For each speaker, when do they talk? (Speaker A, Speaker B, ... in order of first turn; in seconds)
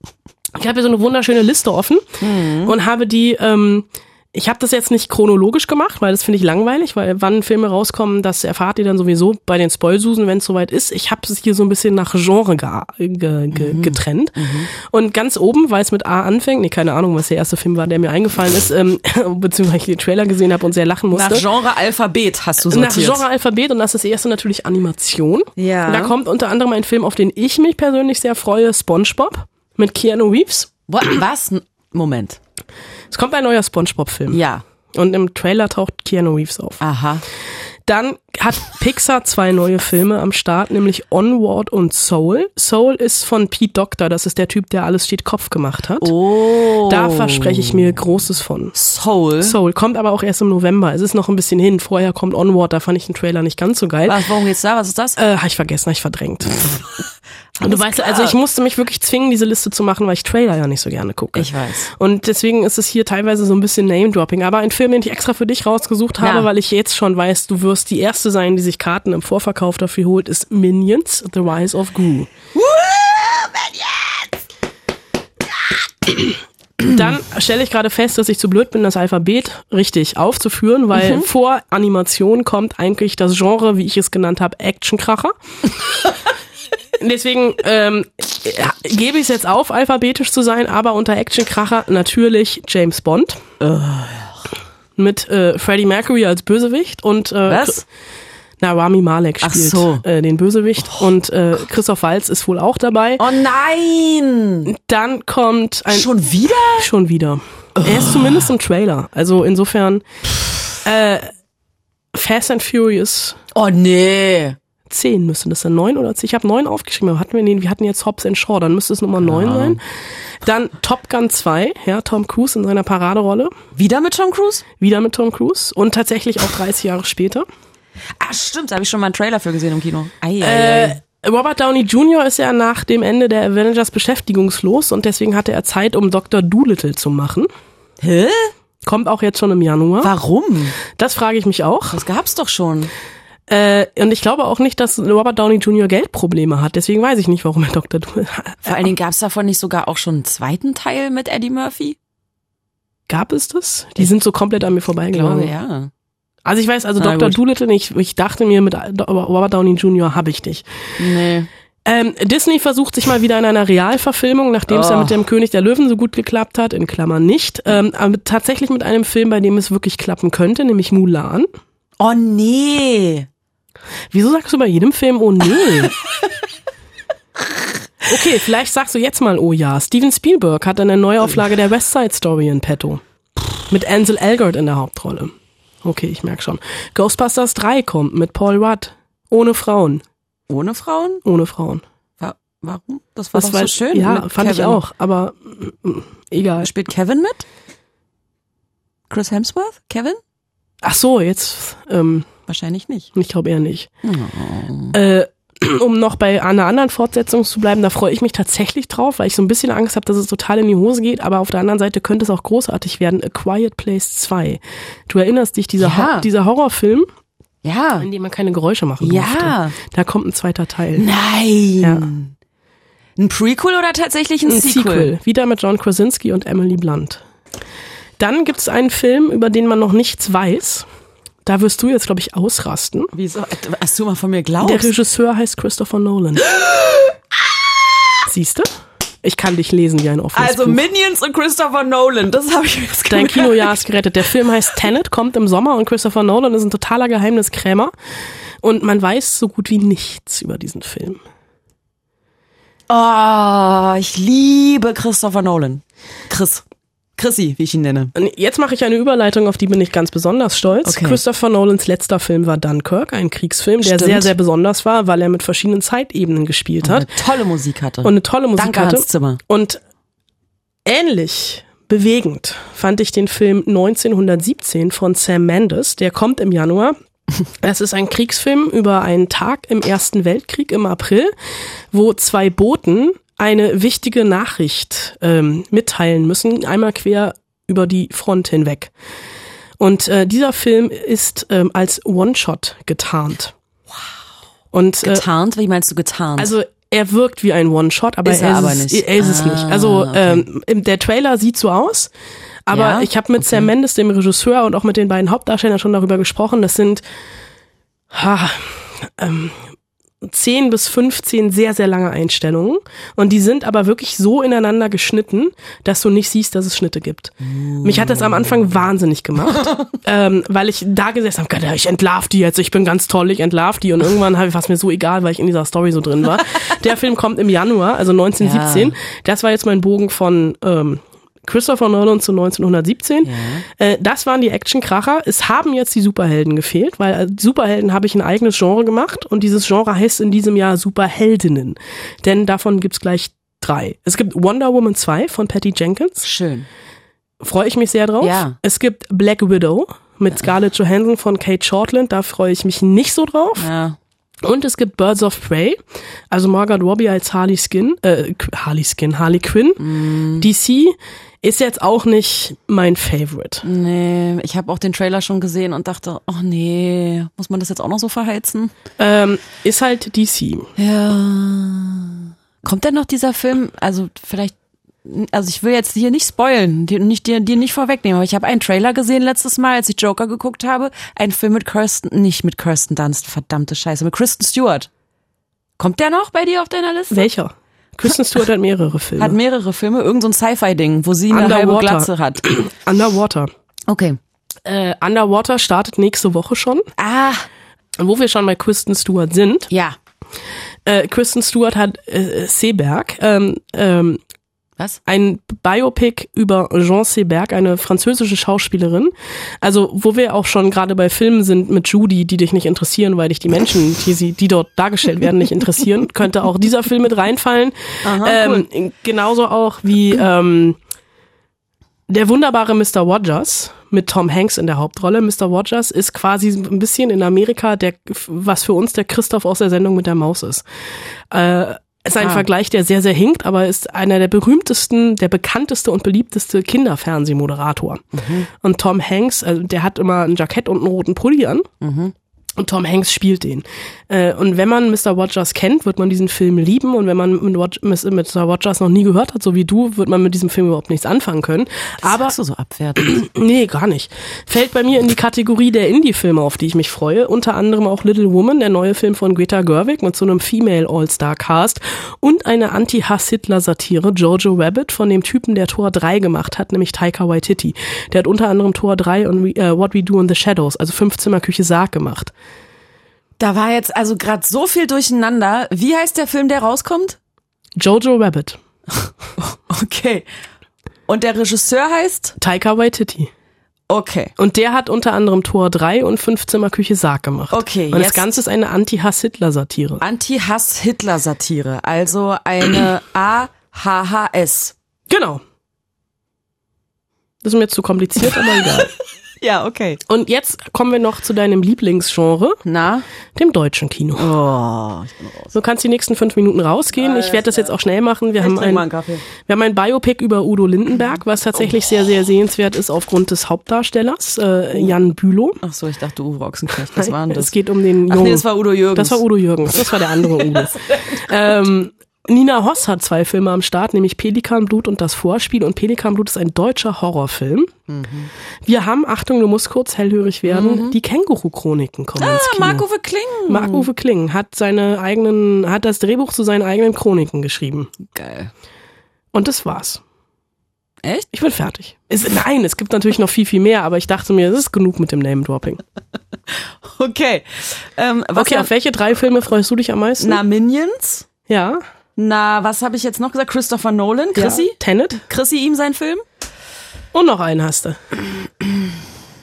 Speaker A: 0.5-21.4, 22.7-30.7, 33.1-34.4, 34.9-36.8, 37.9-46.1, 46.7-48.8, 49.4-54.2, 55.2-56.8, 57.6-72.3, 76.8-85.3, 87.0-93.5, 95.0-97.8, 98.6-103.2, 104.7-106.1, 106.7-110.0, 110.8-111.3, 112.1-113.4, 114.9-119.8, 120.4-123.5, 124.8-127.5, 130.4-137.5, 138.8-140.1, 140.9-142.0, 143.5-148.8, 153.1-155.5, 156.4-160.6, 161.8-171.5, 174.1-175.9, 178.1-183.0, 183.7-190.0, 191.2-191.8, 193.3-196.7, 200.8-202.2, 203.1-203.9, 204.9-217.1, 218.0-221.1, 221.8-222.1, 224.5-227.2, 228.2-230.9, 231.4-233.1, 234.6-236.4, 238.3-238.7, 239.2-240.8, 243.1-247.9, 248.6-251.2, 258.1-267.1, 268.0-269.8, 270.9-277.0, 277.6-281.3, 281.9-288.9, 289.8-293.5, 294.7-295.2, 296.4-302.1, 302.7-307.0, 308.1-309.6, 310.2-346.2, 347.4-353.7, 354.4-355.8, 356.3-359.8, 360.4-363.6, 369.0-370.7, 387.1-389.4, 391.3-393.5, 394.6-396.9, 398.0-399.7, 400.9-404.2, 405.1-420.8, 422.1-430.6, 431.3-438.0, 438.6-441.7, 442.6-452.3, 453.0-472.3, 477.8-478.6, 482.4-483.3, 484.4-490.0, 495.1-495.4, 497.4-498.9, 500.1-502.6, 503.4-504.4, 505.5-508.8, 509.4-515.6, 517.0-527.7, 528.6-532.9, 533.5-537.9, 539.3-540.0, 541.3-545.8, 548.4-550.4, 551.5-551.8, 554.3-555.2, 557.1-558.0
Speaker B: 2.2-2.7, 13.5-14.7, 21.1-23.2, 25.6-26.1, 30.9-32.4, 34.3-34.6, 36.8-37.2, 46.0-47.9, 48.7-49.6, 54.0-55.2, 57.5-58.3, 61.3-61.9, 66.2-66.5, 72.5-74.3, 80.9-81.2, 93.6-94.4, 97.5-97.8, 99.4-100.0, 103.2-104.7, 105.9-106.9, 107.8-108.5, 113.5-114.6, 119.2-119.8, 123.8-124.6, 128.2-131.0, 138.0-138.5, 140.0-140.8, 141.9-142.9, 148.6-152.0, 155.1-155.9, 157.0-157.4, 161.0-161.5, 164.7-165.2, 172.0-173.3, 190.5-191.2, 192.2-194.8, 196.6-197.4, 199.1-200.2, 202.5-203.1, 204.0-205.0, 215.8-216.3, 217.6-218.1, 219.0-219.8, 221.0-222.3, 223.2-225.1, 233.1-234.9, 236.4-237.2, 240.3-243.8, 252.9-256.6, 257.2-258.1, 260.8-261.2, 263.8-264.3, 266.8-269.4, 295.0-296.5, 298.2-300.5, 302.7-303.7, 317.4-318.6, 319.5-319.8, 328.4-329.0, 333.2-333.6, 346.2-346.7, 348.2-348.6, 353.6-354.0, 359.8-360.5, 363.6-368.7, 370.8-384.9, 385.8-387.3, 389.2-392.4, 393.9-394.2, 397.0-397.5, 399.7-400.0, 418.0-418.6, 432.2-432.5, 438.1-438.5, 441.8-442.1, 452.0-453.2, 473.4-477.2, 479.1-480.3, 481.1-482.4, 483.9-484.3, 487.5-488.3, 490.0-494.7, 499.4-500.0, 502.6-503.0, 504.1-505.5, 506.9-507.7, 508.4-509.2, 515.6-517.5, 518.1-521.5, 527.9-528.3, 530.5-531.0, 532.2-533.9, 538.0-538.5, 541.0-541.3, 546.5-548.7, 550.2-551.3, 552.1-556.2